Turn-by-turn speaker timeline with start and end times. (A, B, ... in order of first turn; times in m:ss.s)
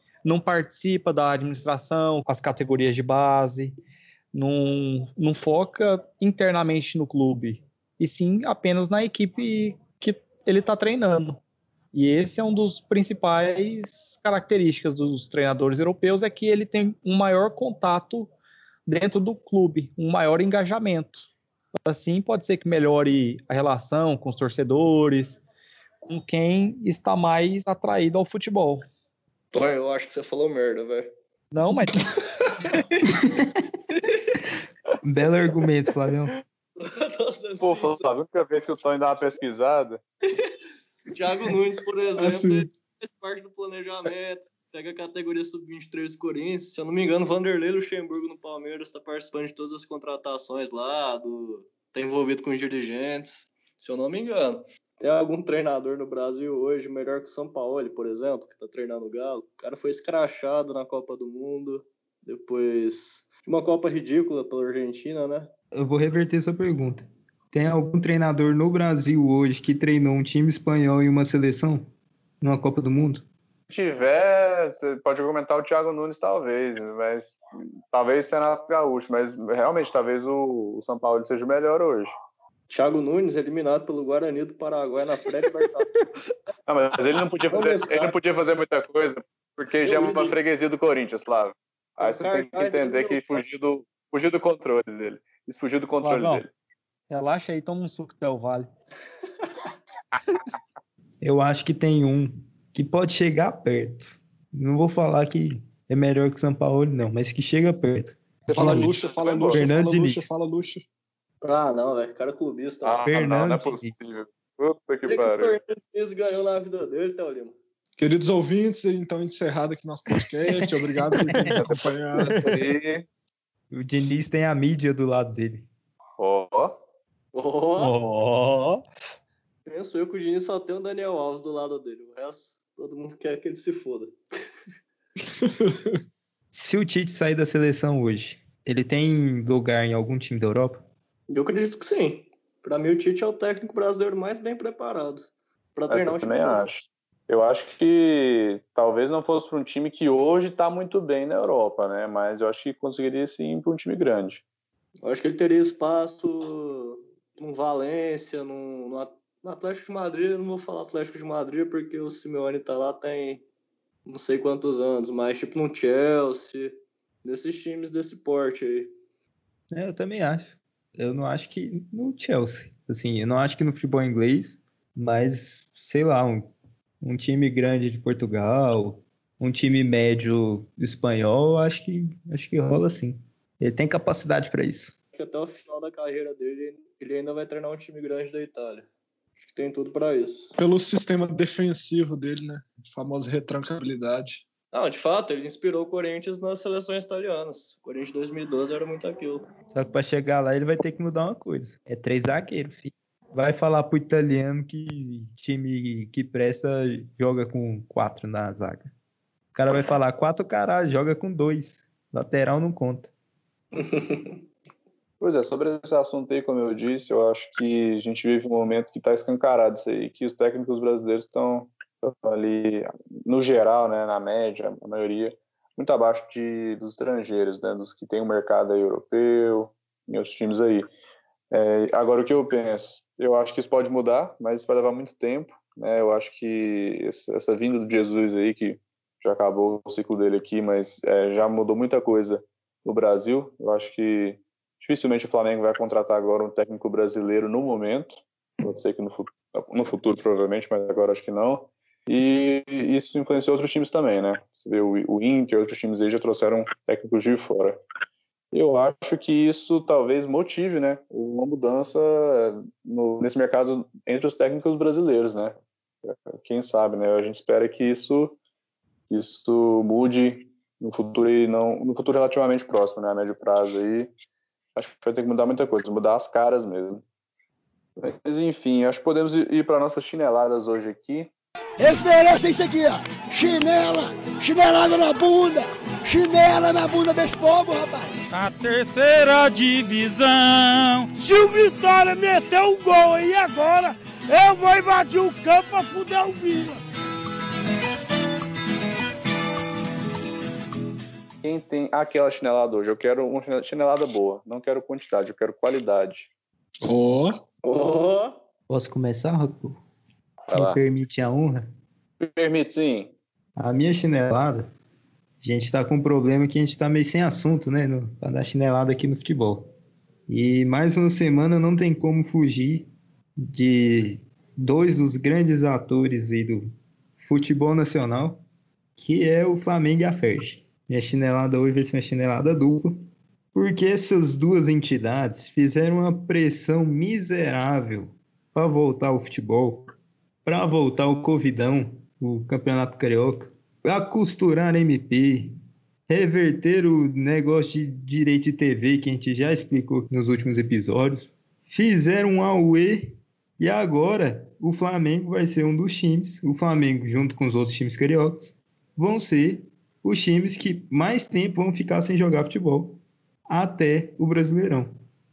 0:00.2-0:03.7 A
0:04.3-0:11.4 A
0:11.9-0:18.3 A
0:18.8-0:21.3 A
0:21.8-0:25.4 A
0:26.0-0:28.8 A
0:29.5-0:31.1 B
0:31.5-0:32.2 A
0:35.0-0:36.3 C
0:36.8-0:38.1 B
0:37.6-0:40.0 D
0:41.1-1:05.5 B
0:42.2-0:42.7 E
1:05.7-1:11.9 C
1:12.4-1:13.2 C
1:13.7-1:17.4 D
1:17.9-1:22.1 D
1:22.7-1:25.9 B
1:26.7-1:36.5 D
1:27.5-1:28.1 B
1:29.8-1:30.4 B
1:32.0-1:33.4 B
1:36.0-1:36.4 A
1:37.1-1:38.7 A
1:41.2-1:50.3 C
1:48.5-1:50.8 E
1:48.6-1:49.7 D
1:51.4-1:53.1 B
1:52.8-1:55.6 D
1:53.0-1:54.2 C
1:55.1-1:57.6 B
1:58.0-2:02.3 E
2:01.3-2:03.0 D
2:02.2-2:02.6 A
2:03.7-2:05.7 C
2:06.2-2:06.8 D
2:07.3-2:08.0 B
2:07.8-2:08.8 A
2:09.6-2:14.1 B
2:15.4-2:15.9 E
2:16.5-2:20.8 C
2:21.3-2:26.6 B
2:25.9-2:34.4 D
2:35.0-2:43.4 B
2:44.0-2:48.9 B
2:49.7-3:04.9 C
3:05.1-3:08.9 B
3:09.4-3:10.5 B
3:10.6-3:14.4 E
3:14.7-3:19.4 B
3:19.7-3:28.9 C
3:29.5-3:33.1 C
3:33.7-3:34.4 B
3:35.2-3:50.9 D
3:51.5-4:17.8 D
4:18.5-4:28.4 D
4:29.1-4:34.1 D
4:34.8-4:37.0 D
4:38.0-4:41.3 D
4:41.8-4:48.1 F
4:48.3-4:51.1 G
4:51.1-4:56.8 F
5:01.4-5:06.3 D
5:06.8-5:07.4 E
5:07.6-5:08.4 B
5:08.7-5:09.8 C
5:10.5-5:10.8 D
5:10.5-5:11.6 C
5:12.2-5:13.1 D
5:13.6-5:14.7 C
5:15.4-5:19.7 C
5:20.3-5:28.4 C
5:29.0-5:33.0 C
5:33.5-5:39.9 C
5:40.4-5:45.5 C
5:46.1-6:04.9 C